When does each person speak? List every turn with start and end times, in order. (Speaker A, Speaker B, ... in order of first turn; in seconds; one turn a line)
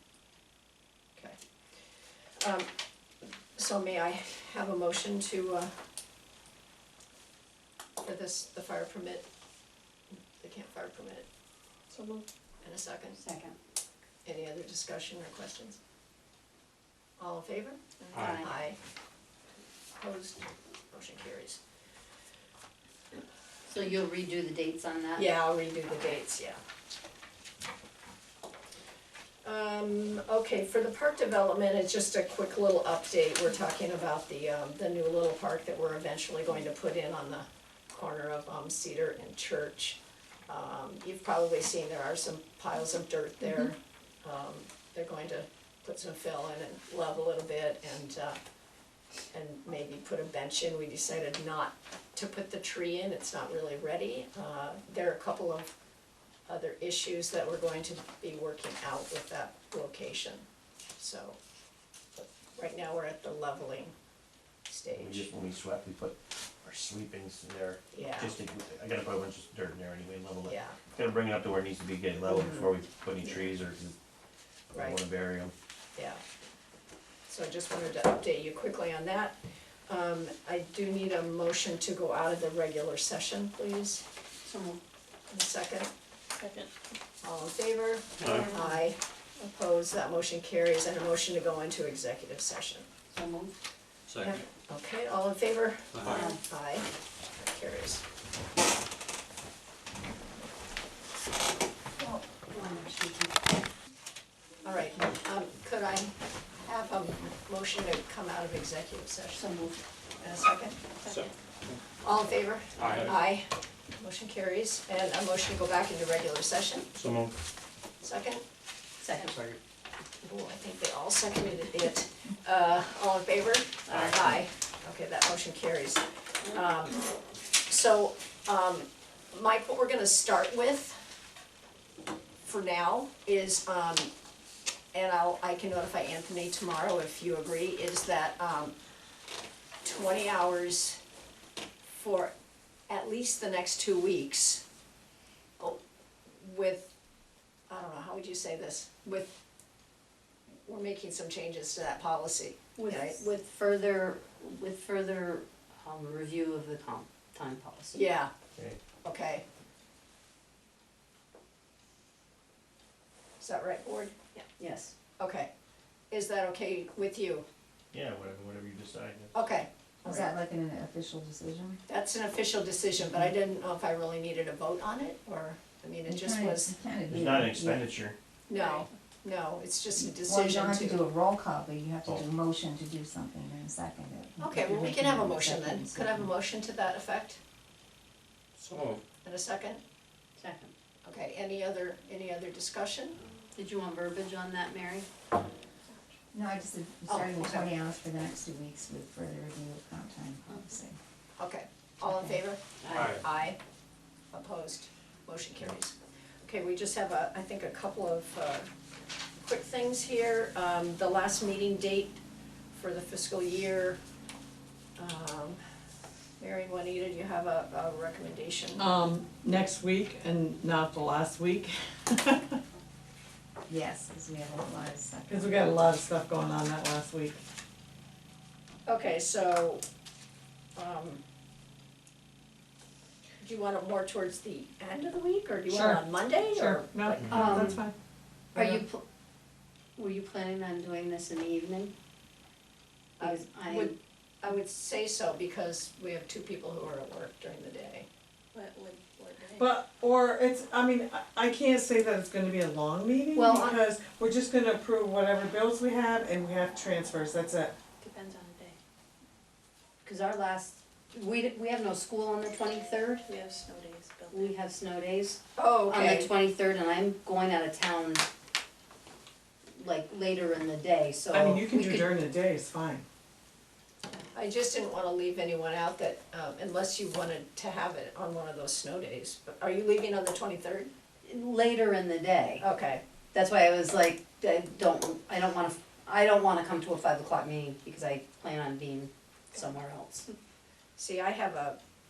Speaker A: 2.4-2.7
Speaker A: 3.5-5.7
Speaker A: 8.0-9.2
Speaker A: 10.4-11.2
Speaker B: 11.9-12.2
Speaker A: 12.6-13.2
Speaker C: 13.1-13.6
Speaker A: 14.2-15.8
Speaker A: 17.2-18.8
Speaker C: 18.1-18.5
Speaker A: 19.9-21.6
Speaker C: 23.6-25.3
Speaker A: 25.1-26.6
Speaker A: 29.4-48.4
Speaker A: 49.3-55.7
Speaker A: 56.5-60.4
Speaker A: 61.0-61.4
Speaker A: 62.1-63.9
Speaker A: 64.7-65.3
Speaker D: 64.9-73.9
Speaker A: 67.9-68.4
Speaker A: 70.5-70.8
Speaker A: 72.3-72.7
Speaker D: 74.7-75.5
Speaker A: 74.7-75.0
Speaker A: 76.0-76.2
Speaker A: 77.3-79.3
Speaker A: 79.9-84.0
Speaker C: 84.4-84.8
Speaker A: 85.3-85.9
Speaker B: 86.4-86.7
Speaker A: 87.2-92.9
Speaker C: 93.1-93.5
Speaker E: 94.1-94.4
Speaker A: 94.2-98.0
Speaker E: 95.9-96.2
Speaker C: 96.1-96.4
Speaker C: 102.0-103.4
Speaker A: 104.6-109.5
Speaker C: 109.3-109.8
Speaker A: 110.2-110.8
Speaker E: 111.1-111.8
Speaker A: 112.0-116.9
Speaker E: 112.8-113.1
Speaker A: 118.0-118.4
Speaker C: 119.0-119.4
Speaker A: 120.2-131.0
Speaker C: 123.9-124.2
Speaker A: 132.4-134.1
Speaker A: 134.9-138.7
Speaker A: 139.8-141.0
Speaker A: 141.9-142.3
Speaker A: 142.9-144.6
Speaker A: 146.4-146.9
Speaker A: 147.7-149.3
Speaker A: 150.6-153.2
Speaker C: 152.8-158.0
Speaker A: 157.9-158.3
Speaker A: 159.0-159.4
Speaker A: 163.4-164.4
Speaker C: 164.6-164.9
Speaker A: 165.2-165.5
Speaker A: 166.1-167.4
Speaker D: 167.9-169.3
Speaker A: 169.3-170.3
Speaker F: 170.0-171.8
Speaker A: 171.9-176.7
Speaker F: 176.1-177.8
Speaker D: 177.1-178.2
Speaker A: 178.5-181.0
Speaker B: 178.5-178.9
Speaker F: 179.9-186.3
Speaker A: 184.4-187.4
Speaker E: 188.6-189.0
Speaker A: 189.2-189.8
Speaker C: 190.4-190.7
Speaker A: 191.0-193.2
Speaker C: 193.5-195.1
Speaker F: 196.3-201.0
Speaker A: 197.1-197.8
Speaker A: 201.4-203.6
Speaker F: 202.0-202.4
Speaker C: 202.8-203.2
Speaker A: 204.3-208.7
Speaker A: 209.4-214.0
Speaker A: 215.0-215.6
Speaker A: 216.4-218.9
Speaker G: 218.8-222.6
Speaker F: 223.7-225.8
Speaker G: 225.3-227.4
Speaker A: 228.8-229.8
Speaker A: 230.7-231.2
Speaker A: 233.4-237.7
Speaker G: 235.7-237.9
Speaker C: 237.2-237.8
Speaker C: 238.5-239.0
Speaker G: 238.5-238.8
Speaker C: 239.9-241.9
Speaker C: 243.2-243.9
Speaker A: 243.2-248.1
Speaker B: 248.5-249.8
Speaker G: 249.6-257.7
Speaker C: 253.3-253.8
Speaker B: 258.0-258.8
Speaker C: 260.0-263.2
Speaker B: 263.2-264.6
Speaker C: 264.3-268.3
Speaker A: 265.6-266.3
Speaker C: 269.7-272.1
Speaker G: 271.3-273.1
Speaker A: 274.3-280.9
Speaker C: 281.2-282.6
Speaker A: 282.6-283.0
Speaker C: 283.3-290.3
Speaker A: 291.0-291.8